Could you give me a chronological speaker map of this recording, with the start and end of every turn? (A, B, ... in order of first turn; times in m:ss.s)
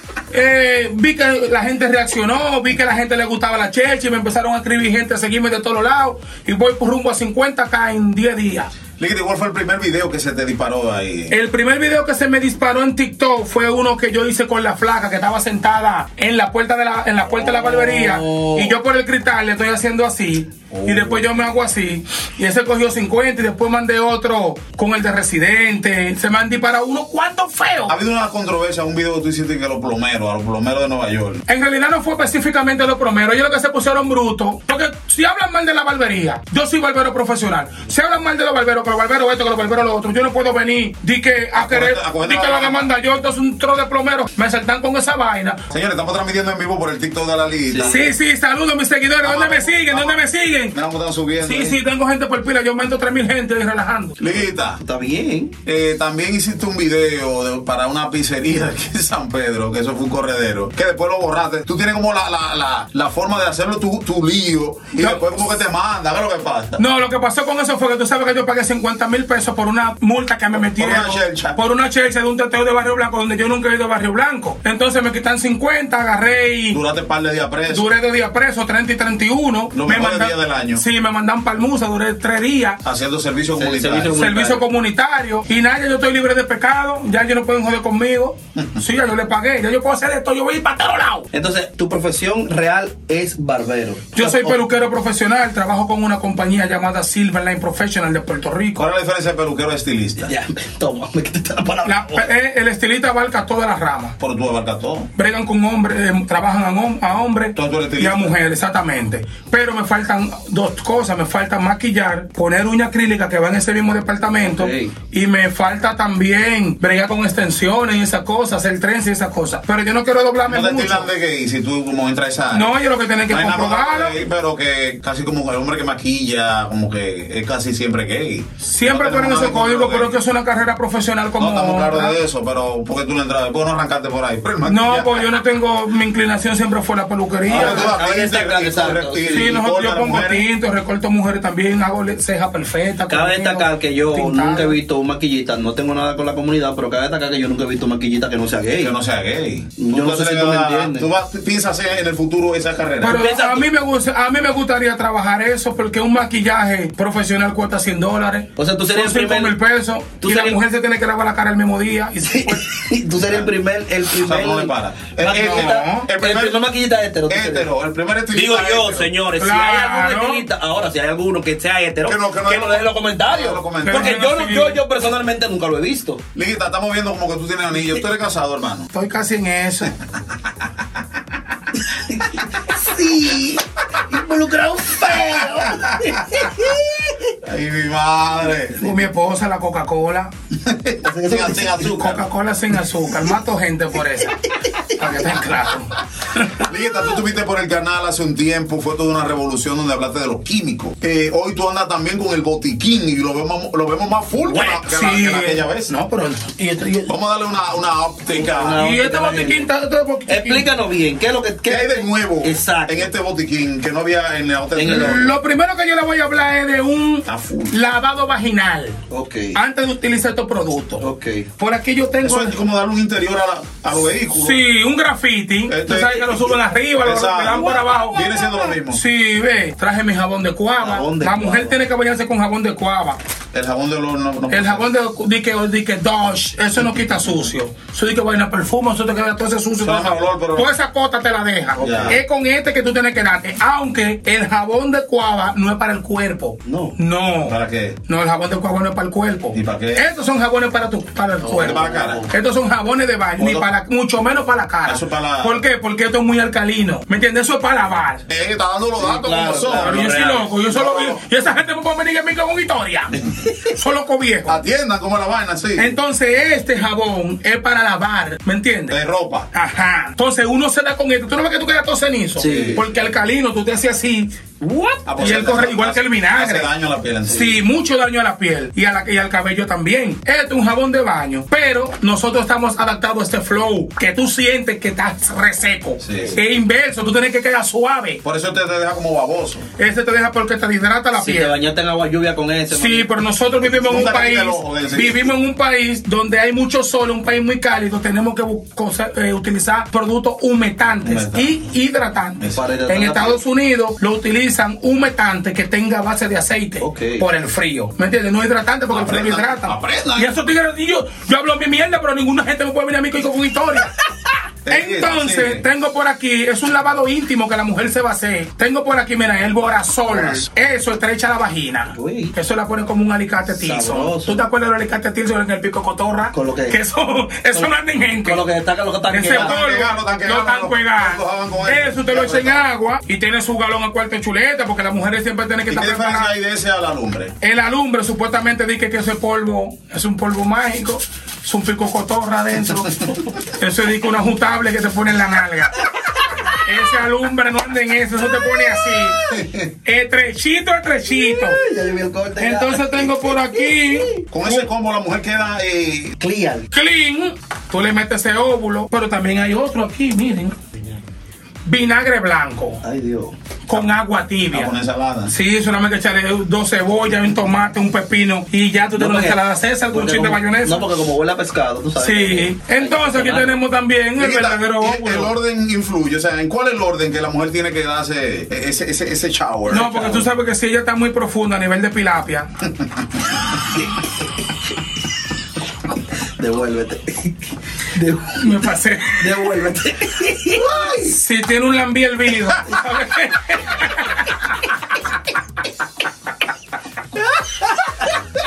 0:00.3-0:08.7 A
0:09.0-0:11.4 B
0:11.3-0:28.0 A
0:17.2-0:18.8 C
0:20.7-0:21.7 B
0:27.9-0:31.4 B
0:31.5-0:45.6 A
0:41.5-0:42.9 B
0:45.7-0:48.0 B
0:47.7-0:48.1 C
0:47.8-0:50.7 A
0:49.2-0:51.8 B
0:51.4-0:54.2 A
0:54.2-0:54.8 B
0:54.8-0:55.5 C
0:55.6-1:06.8 B
1:04.9-1:05.3 A
1:06.8-1:16.8 A
1:10.5-1:11.6 B
1:16.7-1:17.9 B
1:17.7-1:22.8 A
1:19.7-1:20.8 B
1:22.8-1:24.2 B
1:23.6-1:24.6 C
1:24.1-1:31.3 A
1:31.3-1:34.6 C
1:34.1-1:38.9 A
1:38.7-1:40.3 B
1:40.2-1:42.3 C
1:41.8-1:44.2 A
1:44.2-1:45.1 B
1:45.1-2:01.1 A
1:47.5-1:48.4 B
1:54.4-1:54.9 C
2:00.4-2:02.8 B
2:02.5-2:04.2 A
2:03.3-2:10.2 B
2:08.6-2:12.2 A
2:11.4-2:15.2 B
2:14.6-2:18.0 A
2:17.4-2:20.5 B
2:17.5-2:19.6 C
2:19.2-2:24.8 A
2:23.1-2:29.0 C
2:28.8-2:33.2 B
2:29.8-2:31.1 C
2:33.0-2:42.7 A
2:33.0-2:33.6 C
2:38.6-2:39.6 C
2:40.2-2:40.6 C
2:42.3-2:47.7 C
2:43.2-2:43.5 B
2:44.1-2:46.7 B
2:45.3-2:46.1 A
2:47.3-2:49.1 B
2:48.3-2:56.2 C
2:49.4-2:50.4 A
2:52.0-2:54.3 B
2:53.8-2:54.8 A
2:56.3-2:58.9 B
2:58.9-2:59.9 A
3:02.1-3:07.2 C
3:05.2-3:06.5 B
3:07.4-3:08.9 B
3:08.8-3:10.3 A
3:10.6-3:12.3 B
3:11.0-3:11.9 C
3:11.8-3:16.4 A
3:14.8-3:15.3 C
3:16.5-3:25.9 B
3:24.5-3:27.1 A
3:27.0-3:28.8 B
3:28.3-3:29.6 C
3:28.8-3:30.7 A
3:30.3-3:33.1 C
3:31.6-3:35.3 B
3:34.7-3:35.3 C
3:34.8-3:39.0 A
3:37.2-3:37.8 B
3:39.1-3:39.6 C
3:39.5-3:41.0 A
3:41.0-3:41.5 C
3:41.6-3:42.6 A
3:42.2-3:44.6 B
3:44.3-3:53.2 A
3:45.7-3:49.0 B
3:50.8-3:51.8 C
3:53.5-3:54.9 B
3:54.5-4:18.2 A
3:59.8-4:00.7 B
4:01.8-4:02.2 C
4:01.8-4:02.2 B
4:06.6-4:07.0 C
4:07.3-4:08.0 B
4:09.5-4:10.1 B
4:11.4-4:12.3 C
4:11.5-4:12.2 B
4:13.4-4:13.7 B
4:14.8-4:15.6 B
4:18.3-4:20.0 B
4:19.0-4:20.5 C
4:19.7-4:24.6 A
4:20.6-4:21.2 B
4:24.5-4:26.0 B
4:25.8-4:29.0 A
4:28.9-4:29.5 B
4:29.5-4:34.3 A
4:32.4-4:32.8 C
4:32.4-4:33.0 B
4:34.6-4:35.1 C
4:35.0-4:37.6 B
4:35.2-4:36.7 A
4:37.3-4:48.2 A
4:46.0-4:46.4 B
4:48.2-4:49.7 B
4:49.8-4:51.6 A
4:51.1-4:53.1 C
4:52.7-5:13.9 A
4:53.7-4:55.2 B
5:01.0-5:01.6 B
5:02.5-5:03.4 C
5:06.8-5:07.2 C
5:08.9-5:10.4 B
5:14.6-5:15.6 B
5:14.7-5:28.4 A
5:20.1-5:20.5 B
5:21.9-5:22.3 C
5:23.4-5:24.4 C
5:26.3-5:26.8 C
5:28.2-5:29.6 C
5:29.1-5:36.3 A
5:29.2-5:32.7 B
5:35.7-5:37.3 B
5:37.4-5:45.8 A
5:46.6-5:49.2 A
5:49.2-5:49.6 B
5:49.8-5:51.6 A
5:51.0-5:54.2 C
5:52.4-5:54.7 A
5:54.3-5:56.2 B
5:56.2-5:56.7 C
5:56.7-6:00.6 A
6:01.6-6:02.8 A
6:02.8-6:03.3 C
6:03.6-6:04.7 A
6:04.5-6:05.3 B
6:05.3-6:10.9 A
6:09.0-6:13.5 C
6:12.0-6:15.3 A
6:14.2-6:20.2 B
6:19.7-6:22.5 A
6:26.4-6:31.2 C
6:28.4-6:29.3 A
6:31.1-6:34.5 A
6:37.3-6:38.2 C